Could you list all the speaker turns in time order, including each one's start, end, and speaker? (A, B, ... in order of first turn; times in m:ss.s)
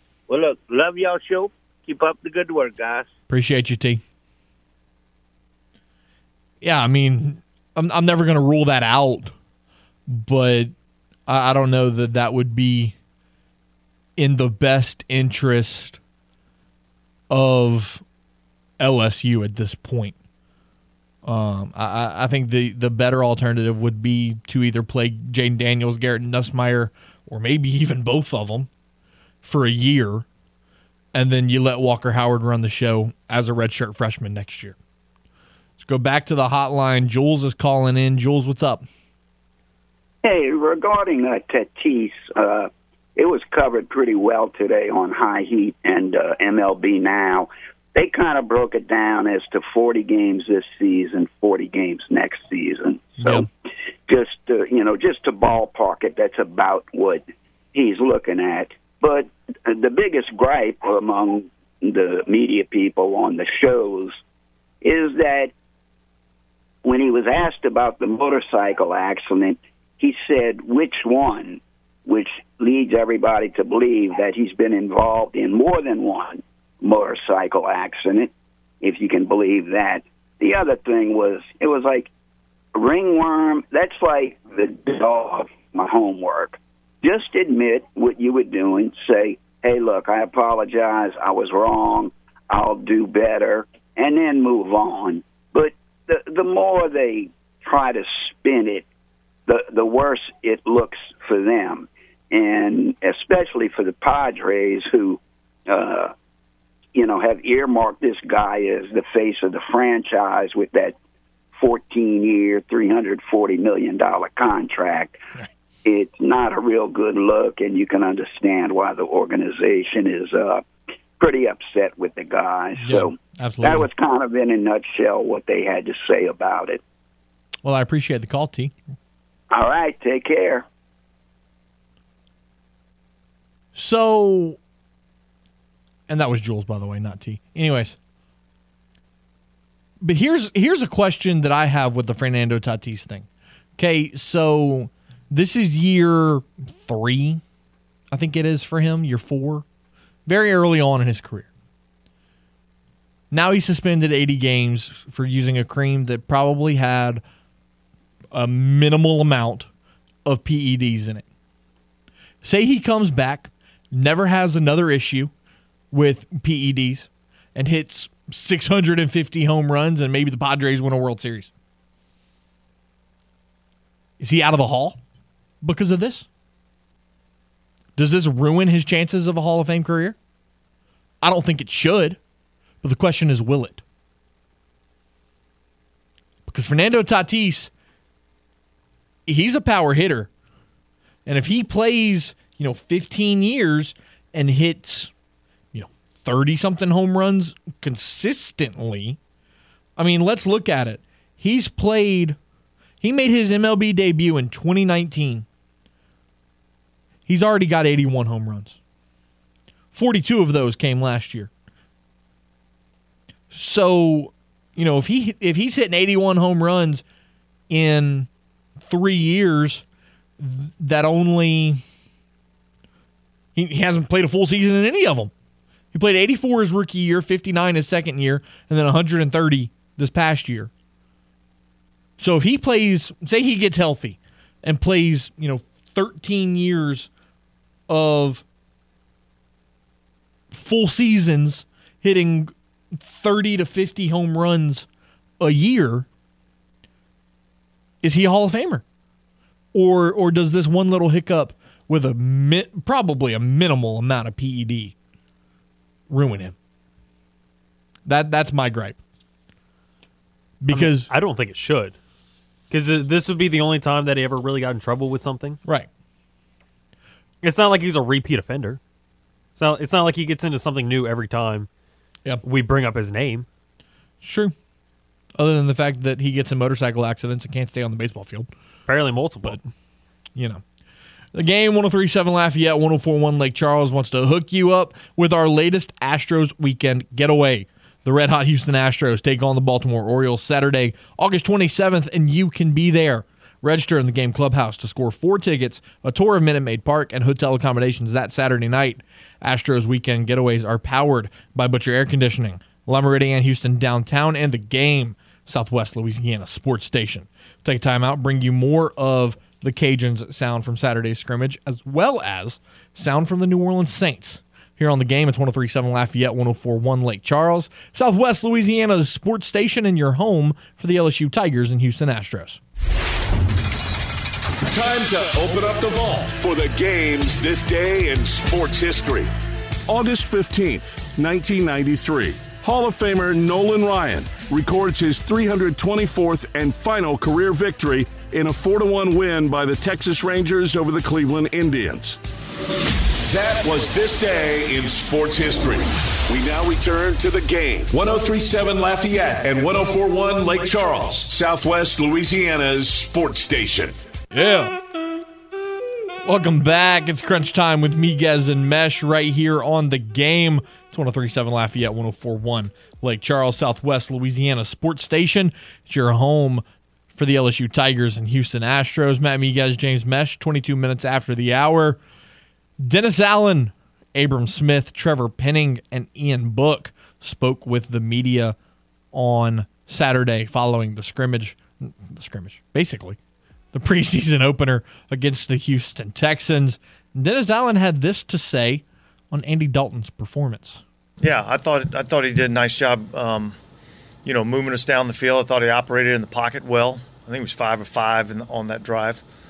0:00.3-0:03.1 A
0:03.3-0:04.0 B
0:06.6-0:09.3 B
0:10.1-0:10.7 B
0:11.3-0:12.9 B
0:14.2-0:16.0 B
0:17.3-0:18.0 B
0:18.8-0:20.2 B
0:21.2-0:28.7 B
0:29.4-0:30.3 B
0:31.1-0:34.8 B
0:35.8-0:38.8 B
0:40.2-0:53.5 C
0:53.2-0:53.5 B
0:54.1-0:57.2 C
0:57.7-1:04.2 C
1:04.8-1:05.5 C
1:06.8-1:22.1 C
1:22.7-1:38.8 C
1:39.5-1:46.1 C
1:46.9-1:51.0 C
1:51.6-1:55.2 C
1:55.8-2:00.6 C
2:01.2-2:06.8 C
2:02.8-2:03.9 B
2:07.6-2:08.8 B
2:09.5-2:10.6 C
2:13.7-2:14.6 B
2:16.1-2:18.0 B
2:20.0-2:27.4 B
2:28.1-2:29.6 B
2:30.2-2:31.5 B
2:33.3-2:37.2 B
2:38.3-2:39.7 B
2:40.2-2:41.2 B
2:42.4-2:45.3 B
2:45.9-2:51.5 B
2:54.2-2:55.0 B
2:55.6-2:56.3 B
2:58.0-3:00.2 B
3:01.2-3:02.2 B
3:02.8-3:03.8 B
3:06.5-3:07.7 B
3:09.3-3:10.3 B
3:11.2-3:15.1 B
3:15.7-3:19.2 B
3:20.0-3:22.4 B
3:23.0-3:25.4 B
3:27.3-3:28.8 B
3:29.9-3:31.5 B
3:33.5-3:37.0 B
3:37.7-3:38.3 B
3:38.8-3:39.8 B
3:40.4-3:41.8 B
3:43.5-3:45.3 B
3:45.9-3:50.7 B
3:52.2-3:57.1 B
3:57.9-3:58.4 B
4:00.5-4:04.9 B
4:05.4-4:06.1 B
4:08.0-4:08.8 B
4:09.7-4:14.9 B
4:16.1-4:16.6 B
4:18.0-4:19.0 B
4:20.6-4:21.1 B
4:20.7-4:22.0 D
4:22.7-4:25.6 D
4:25.6-4:25.9 B
4:27.4-4:28.8 D
4:29.5-4:31.7 D
4:32.4-4:33.5 D
4:34.2-4:34.5 B
4:35.4-4:38.5 B
4:38.9-4:39.6 D
4:40.3-4:40.6 B
4:41.3-5:22.6 B
5:24.7-5:29.3 E
5:29.9-5:42.2 E
5:43.3-5:53.9 E
5:54.3-5:54.8 B
5:56.2-6:12.0 B
6:12.8-6:18.6 B
6:19.1-6:23.2 B
6:23.7-6:30.8 B
6:31.2-6:33.6 F
6:34.2-6:39.2 F